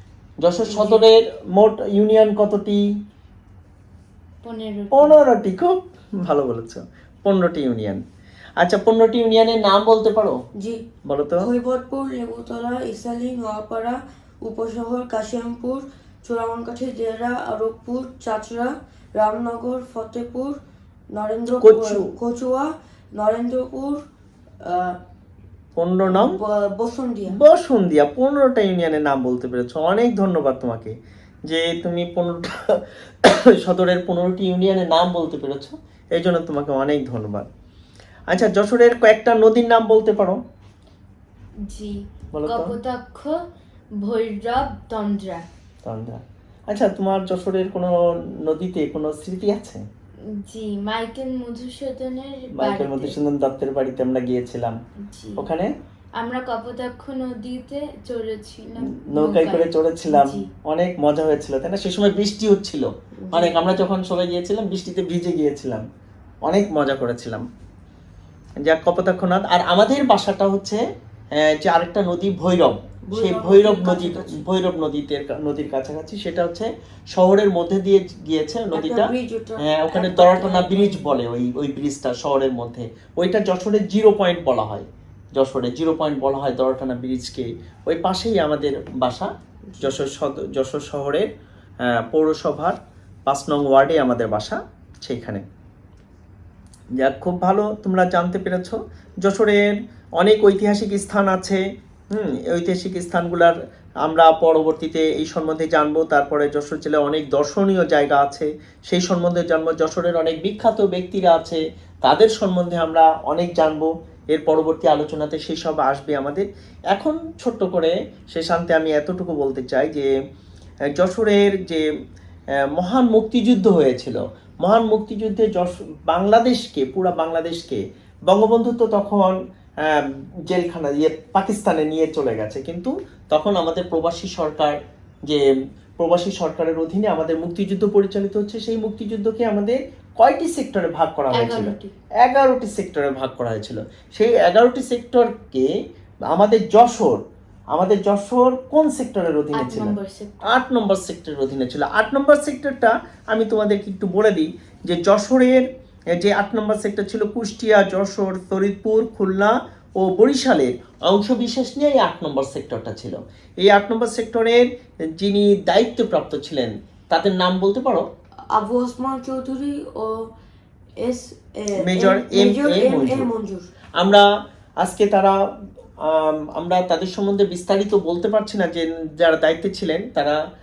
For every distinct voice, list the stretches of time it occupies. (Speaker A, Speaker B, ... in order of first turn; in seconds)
Speaker A: 0.4-2.8, 4.9-8.0, 8.6-10.4, 11.1-11.5, 21.6-22.1, 25.8-26.4, 27.3-37.5, 38.3-40.4, 42.3-42.7, 45.8-49.8, 52.5-54.8, 55.4-55.7, 58.9-65.8, 66.4-67.4, 68.6-70.8, 71.3-91.3, 91.8-95.4, 97.0-101.6, 102.1-120.1, 120.9-121.8, 122.7-134.8, 136.0-145.7, 146.3-147.2, 147.7-168.1, 171.8-173.3, 174.0-174.2, 174.8-175.3, 176.1-180.4
Speaker B: 0.7-1.0, 10.6-10.8, 11.4-20.6, 21.1-24.0, 24.6-25.0, 26.1-27.4, 63.2-63.6, 73.1-74.4, 78.7-81.2, 89.7-90.0, 168.5-170.2, 171.0-173.7
Speaker C: 4.4-5.2, 41.6-43.4, 44.0-45.4, 50.3-53.2, 55.0-55.5, 56.2-60.5, 141.3-141.9, 149.5-150.5